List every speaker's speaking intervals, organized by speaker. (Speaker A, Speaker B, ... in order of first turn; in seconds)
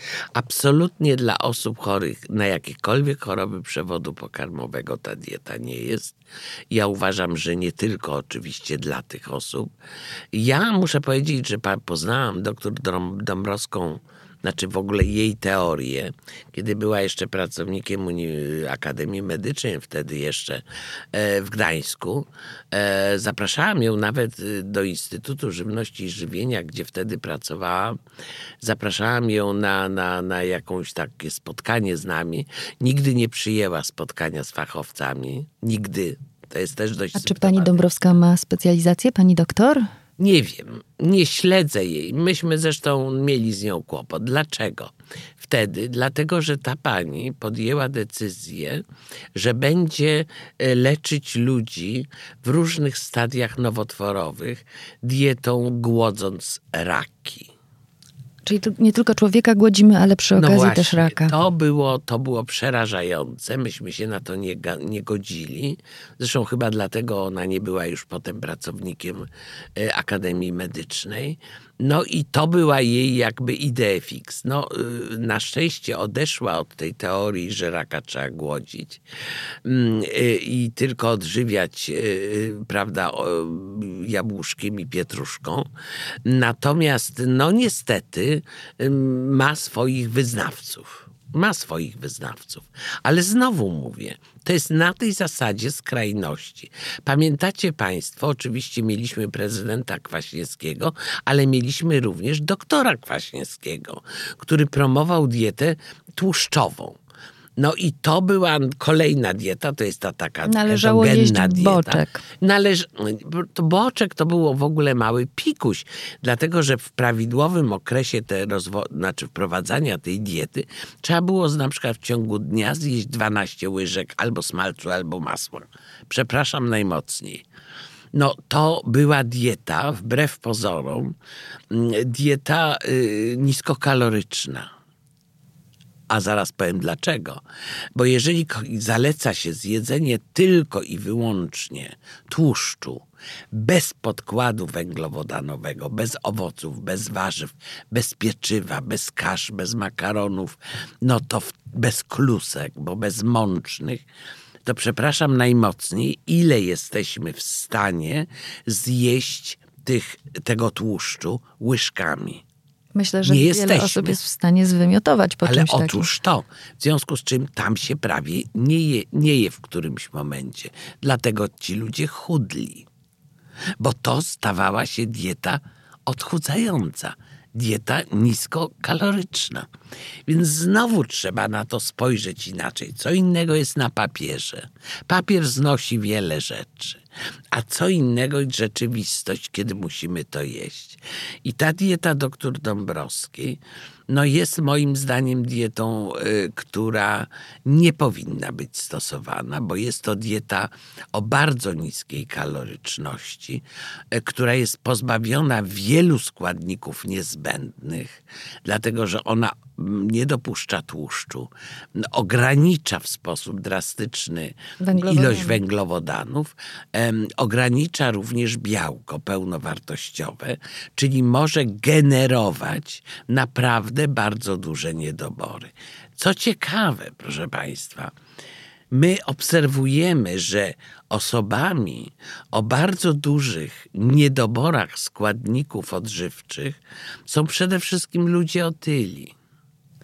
Speaker A: 0.3-6.2, 6.7-9.7, 10.3-28.0, 28.6-38.2, 40.2-48.8, 49.4-57.5, 60.4-79.0, 79.6-85.7, 86.2-107.0, 107.6-127.5, 128.1-131.2, 131.7-134.7, 136.1-137.4, 137.9-154.0, 154.7-162.4, 163.2-164.2, 165.4-172.9, 173.8-179.7, 180.3-187.0, 187.5-193.6, 194.1-228.1, 228.9-239.3
Speaker B: 37.2-39.9, 58.5-61.3, 110.5-112.2, 162.9-166.1, 214.8-215.6